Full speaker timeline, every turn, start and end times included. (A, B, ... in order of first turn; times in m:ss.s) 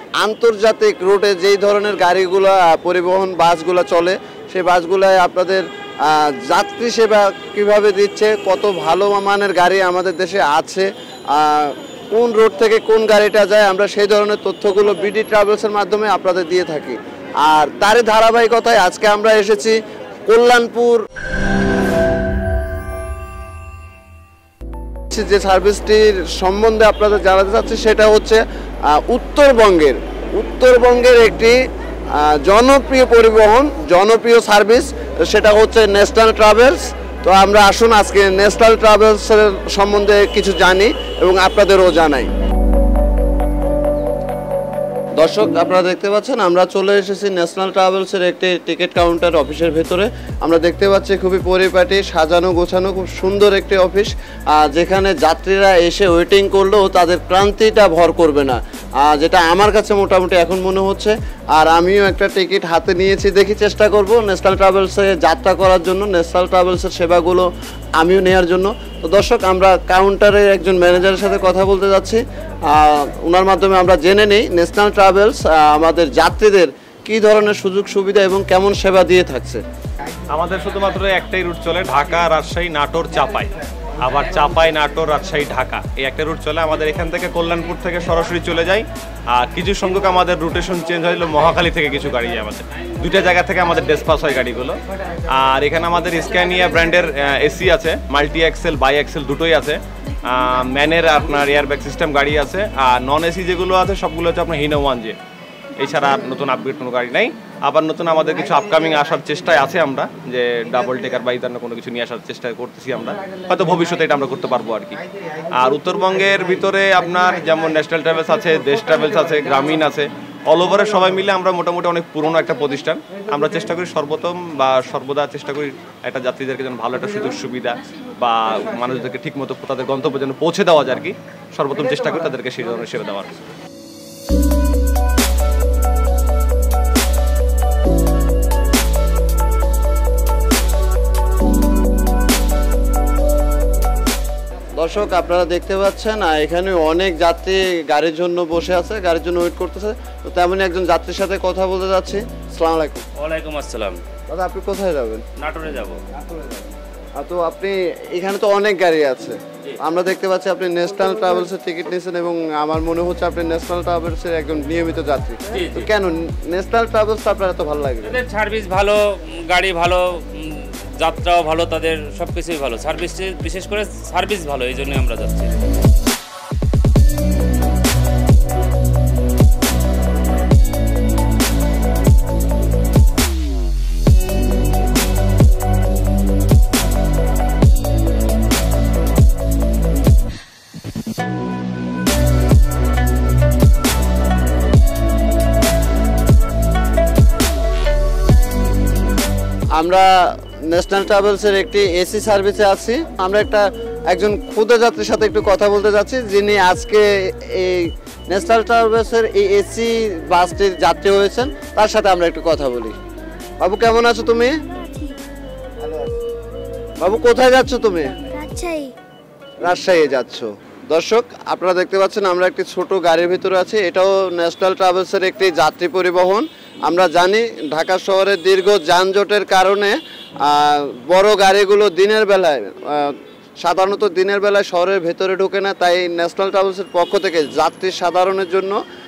0:00.2-0:21.1 A
0:25.1-0:31.6 A
0:32.2-0:42.3 A
0:45.2-1:07.5 A
1:08.0-1:19.6 A
1:20.3-1:45.2 B
1:45.8-2:13.4 B
2:24.8-2:33.0 A
2:33.2-2:34.0 C
2:34.3-2:35.2 A
2:35.4-2:36.0 C
2:36.3-2:36.5 A
2:37.2-2:48.2 A
2:45.5-2:45.9 C
2:48.0-2:55.5 C
3:19.8-3:33.0 A
3:33.6-3:34.6 A
3:34.8-3:35.2 C
3:37.0-3:38.2 A
3:38.3-3:39.0 C
3:39.6-3:58.8 A